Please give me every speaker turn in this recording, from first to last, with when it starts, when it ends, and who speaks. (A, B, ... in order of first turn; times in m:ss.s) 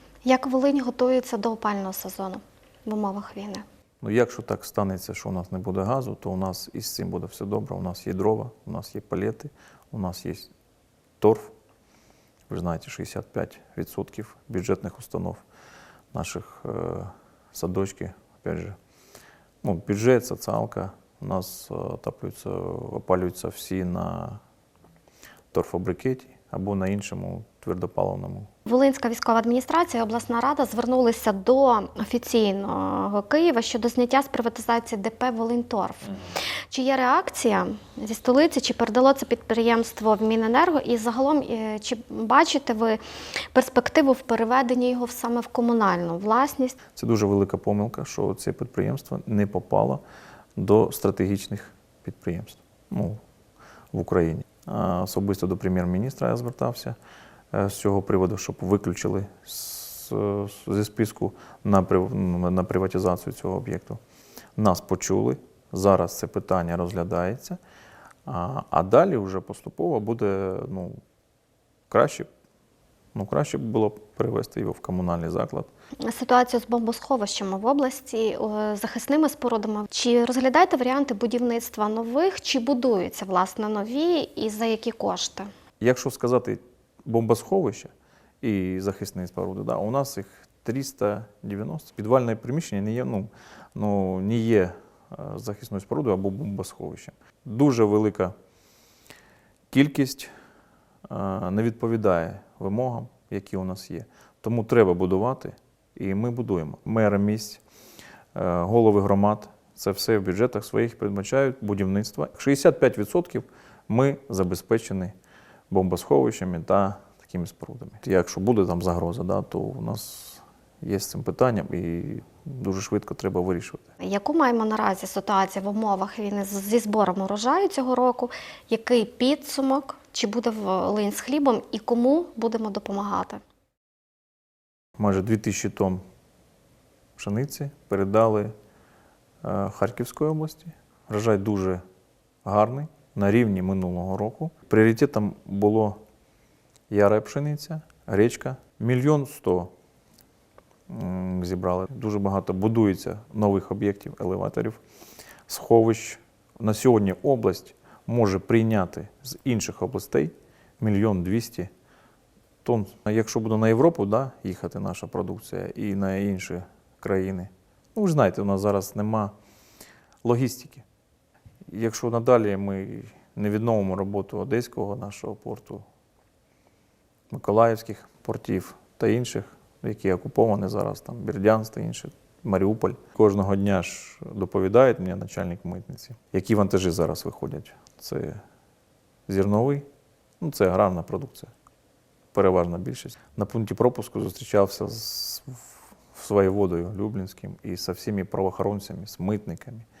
0:00.2-0:03.6 A
0:04.0-0:10.5 B
0:11.2-0:11.5 B
0:12.5-0:15.4 B
0:16.1-0:18.8 B
0:19.6-0:24.4 B
0:25.5-0:28.5 B
0:28.7-0:36.2 A
0:36.7-0:43.0 A
0:43.5-0:46.8 A
0:47.0-0:50.0 B
0:50.6-0:53.2 B
0:53.9-0:57.0 B
0:57.5-1:04.0 B
1:04.6-1:07.6 B
1:08.3-1:11.0 B
1:11.9-1:12.3 B
1:13.1-1:15.7 B
1:16.0-1:25.5 A
1:25.8-1:38.3 B
1:39.7-1:40.3 B
1:41.0-1:47.6 B
1:48.3-1:55.1 B
1:55.7-2:03.9 B
2:04.0-2:13.4 A
2:15.0-2:16.0 B
2:17.2-2:18.5 B
2:19.4-2:21.8 B
2:22.4-2:26.0 B
2:26.9-2:29.7 B
2:30.9-2:34.8 B
2:35.5-2:41.7 B
2:42.6-2:49.3 B
2:50.2-2:50.8 B
2:51.7-2:55.8 B
2:57.3-3:08.4 B
3:09.3-3:09.8 B
3:10.4-3:11.5 B
3:12.3-3:19.9 B